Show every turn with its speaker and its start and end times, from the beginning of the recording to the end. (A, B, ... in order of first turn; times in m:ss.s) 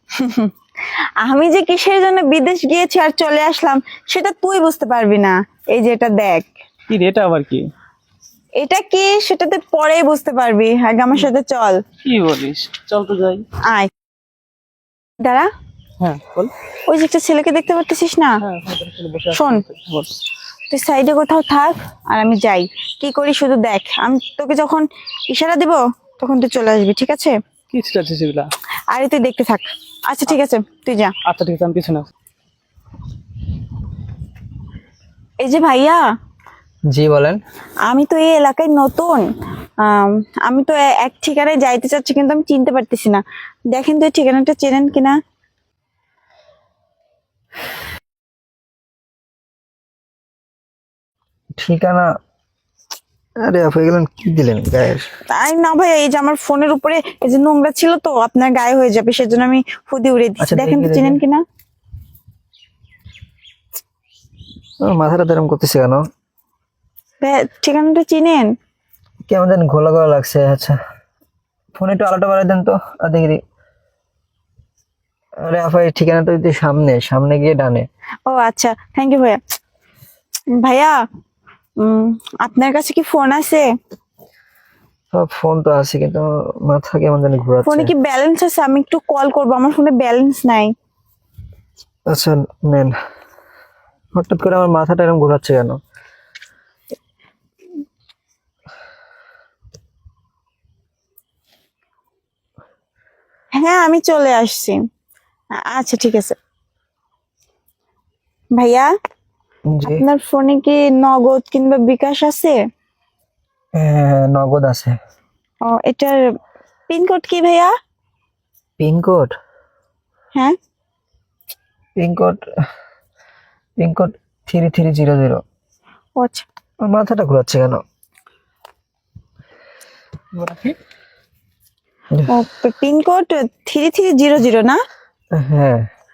0:00.2-0:00.5 A
0:01.2-0:06.5 A
0:06.9-0:07.6 B
0:08.6-0:11.8 A
0:12.0-0:13.4 B
0:13.6-0:13.9 A
0:15.2-0:15.5 A
0:16.0-0:16.5 B
0:16.9-0:18.3 A
0:18.4-0:20.1 B
0:19.3-0:19.6 A
0:20.7-0:27.3 A
0:27.7-0:28.5 B
0:28.9-0:31.1 A
0:31.3-0:32.1 B
0:35.4-0:36.0 A
0:36.9-0:37.4 C
0:37.9-0:39.2 A
0:39.8-0:43.2 A
0:43.7-0:45.2 A
0:51.6-0:52.1 C
0:53.4-0:55.1 C
0:55.3-1:01.4 A
1:00.4-1:01.2 C
1:04.8-1:06.0 C
1:07.2-1:08.5 A
1:09.3-1:10.8 C
1:11.7-1:13.4 C
1:15.4-1:17.9 C
1:18.2-1:19.4 A
1:20.6-1:20.9 A
1:21.8-1:23.7 A
1:25.1-1:27.9 C
1:27.6-1:30.7 A
1:32.1-1:32.9 C
1:34.1-1:35.8 C
1:43.5-1:44.8 A
1:45.7-1:46.3 A
1:48.6-1:48.9 A
1:49.7-1:50.0 C
1:49.8-1:52.6 A
1:53.8-1:55.0 C
1:55.6-1:56.2 A
1:56.9-1:57.7 A
1:58.8-1:59.3 C
2:02.0-2:02.4 C
2:03.8-2:05.4 C
2:06.2-2:06.4 A
2:06.8-2:07.8 C
2:10.3-2:10.8 B
2:12.3-2:14.8 A
2:15.3-2:15.8 C